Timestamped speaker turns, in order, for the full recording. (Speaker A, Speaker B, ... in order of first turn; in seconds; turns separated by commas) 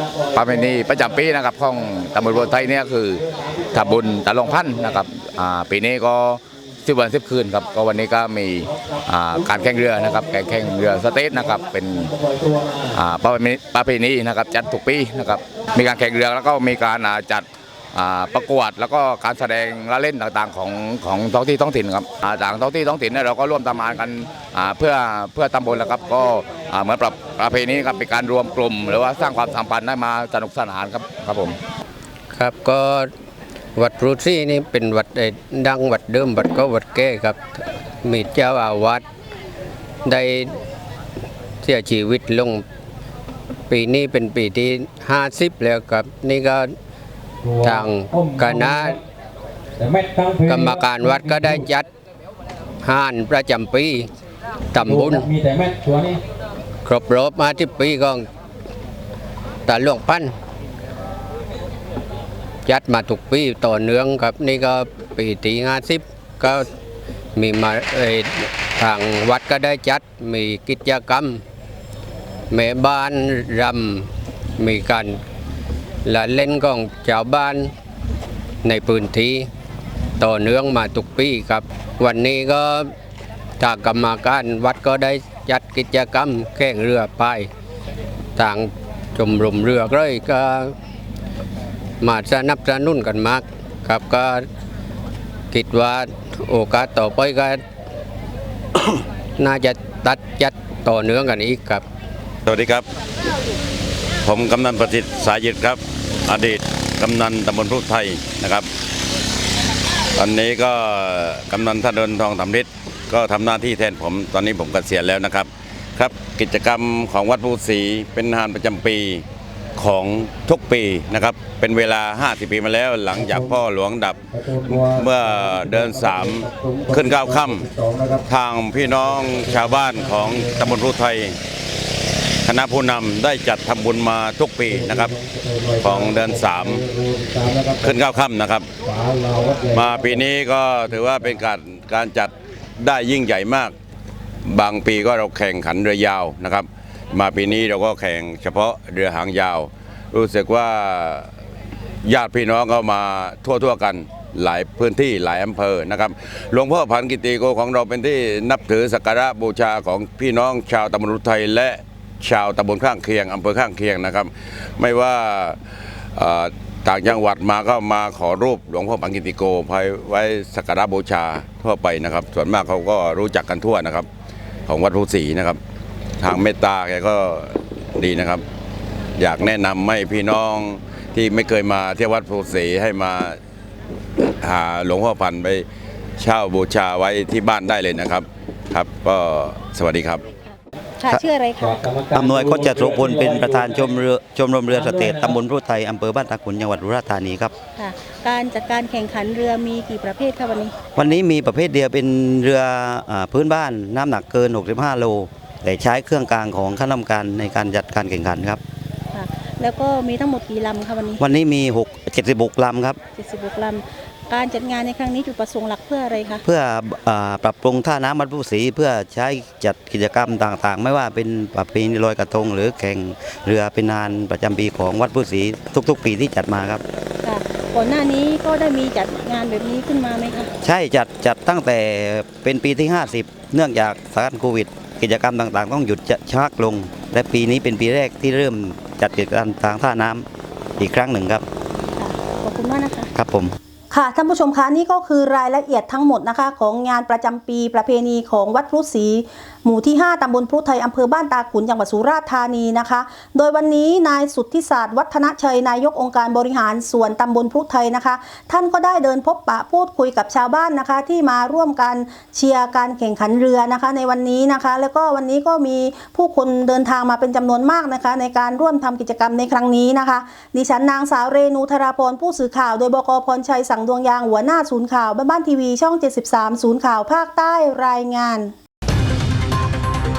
Speaker A: 0.3-12.1, Speaker B: 12.3-12.9, Speaker A: 12.9-31.6, Speaker C: 32.3-33.1, Speaker C: 33.8-37.4, Speaker C: 38.0-39.0, Speaker C: 40.1-40.5, Speaker C: 41.6-42.6, Speaker C: 43.7-46.7, Speaker B: 47.4-49.0, Speaker C: 47.6-49.0, Speaker B: 49.8-51.6, Speaker C: 50.2-51.9, Speaker C: 52.8-54.1, Speaker C: 54.7-55.3, Speaker B: 54.8-56.2, Speaker C: 56.9-58.3, Speaker C: 59.7-60.3, Speaker C: 62.7-66.7, Speaker C: 67.4-71.4, Speaker C: 72.5-74.1, Speaker C: 74.6-75.2, Speaker C: 76.0-77.7, Speaker C: 78.6-79.5, Speaker C: 80.2-82.9, Speaker C: 83.6-87.5, Speaker C: 88.4-90.7, Speaker C: 92.0-94.4, Speaker C: 95.5-97.6, Speaker C: 99.4-101.8, Speaker D: 102.5-102.9, Speaker D: 104.2-108.7, Speaker D: 110.2-119.2, Speaker D: 119.8-127.7, Speaker B: 123.2-123.5, Speaker B: 124.3-128.2, Speaker D: 128.3-131.4, Speaker B: 129.5-130.7, Speaker D: 132.4-135.1, Speaker B: 134.7-137.9, Speaker D: 135.8-136.9, Speaker D: 137.8-138.7, Speaker B: 138.9-140.2, Speaker D: 139.7-143.7, Speaker D: 144.5-151.3, Speaker D: 152.1-165.6, Speaker D: 166.2-174.1, Speaker D: 174.7-175.6, Speaker D: 176.2-178.4, Speaker D: 179.2-183.4, Speaker D: 184.3-185.7, Speaker D: 186.2-190.2, Speaker E: 191.0-191.9, Speaker B: 191.6-194.0, Speaker F: 192.1-197.6, Speaker B: 194.7-195.4, Speaker E: 197.8-200.8, Speaker F: 200.9-208.6, Speaker E: 209.1-211.2, Speaker F: 211.2-213.0, Speaker E: 213.2-216.4, Speaker F: 216.4-226.8, Speaker E: 227.2-230.5, Speaker F: 230.6-240.3, Speaker F: 240.8-241.4, Speaker E: 242.0-243.1, Speaker F: 243.1-243.6, Speaker E: 243.9-278.5